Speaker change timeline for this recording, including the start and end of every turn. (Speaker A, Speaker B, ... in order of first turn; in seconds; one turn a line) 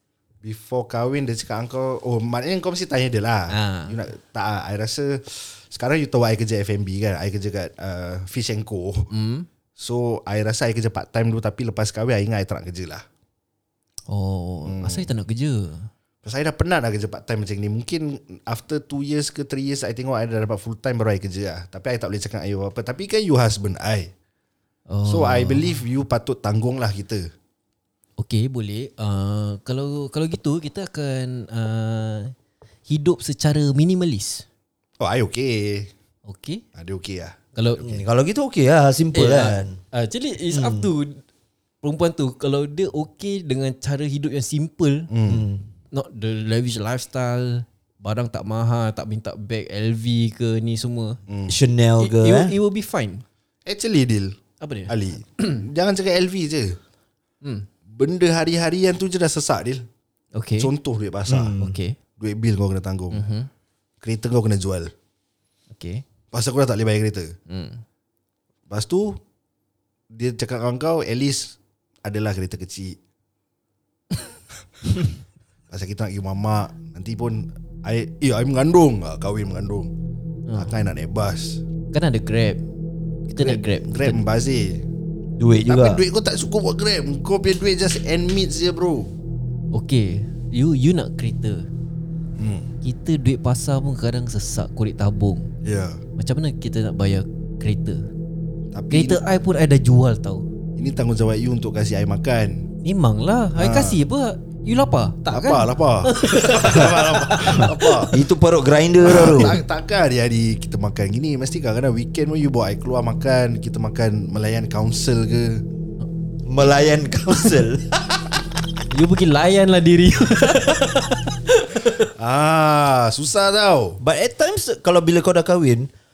Speaker A: 0.4-9.1
Speaker B: 3.5-3.9
Speaker B: 9.1-9.5
Speaker A: 9.8-13.0
Speaker B: 14.1-15.9
Speaker A: 14.6-15.1
Speaker A: 16.2-24.1
Speaker B: 24.9-25.8
Speaker A: 25.1-27.3
Speaker B: 28.2-32.3
Speaker B: 32.9-34.5
Speaker A: 35.0-35.9
Speaker B: 36.3-36.6
Speaker A: 36.8-38.0
Speaker B: 37.5-37.9
Speaker C: 37.8-39.8
Speaker B: 39.1-41.2
Speaker C: 40.5-40.9
Speaker B: 41.8-45.1
Speaker A: 45.1-45.5
Speaker C: 45.3-45.6
Speaker B: 45.9-51.2
Speaker A: 51.3-51.6
Speaker C: 51.5-52.5
Speaker B: 52.0-53.2
Speaker A: 53.6-54.4
Speaker B: 54.6-55.6
Speaker A: 54.9-56.8
Speaker B: 57.4-57.7
Speaker A: 57.9-59.9
Speaker B: 60.4-60.7
Speaker A: 60.6-61.6
Speaker C: 61.3-61.8
Speaker B: 61.6-62.0
Speaker A: 62.2-63.2
Speaker B: 63.1-63.5
Speaker A: 64.0-64.9
Speaker B: 65.7-66.0
Speaker A: 66.3-67.3
Speaker B: 67.5-67.8
Speaker A: 68.7-69.2
Speaker A: 70.1-73.0
Speaker A: 75.7-79.9
Speaker A: 80.6-81.6
Speaker B: 81.9-82.6
Speaker B: 83.3-84.2
Speaker A: 83.4-84.8
Speaker C: 85.4-86.0
Speaker A: 85.7-89.1
Speaker B: 89.7-91.7
Speaker A: 92.4-92.7
Speaker B: 92.8-95.5
Speaker A: 95.6-96.0
Speaker B: 96.2-98.0
Speaker A: 98.7-99.2
Speaker B: 98.9-100.4
Speaker A: 100.8-102.7
Speaker B: 102.8-108.1
Speaker A: 103.6-104.0
Speaker A: 105.3-108.1
Speaker C: 107.6-109.6
Speaker A: 109.0-115.6
Speaker C: 116.5-118.2
Speaker B: 118.9-122.1
Speaker A: 122.2-124.0
Speaker C: 124.0-125.9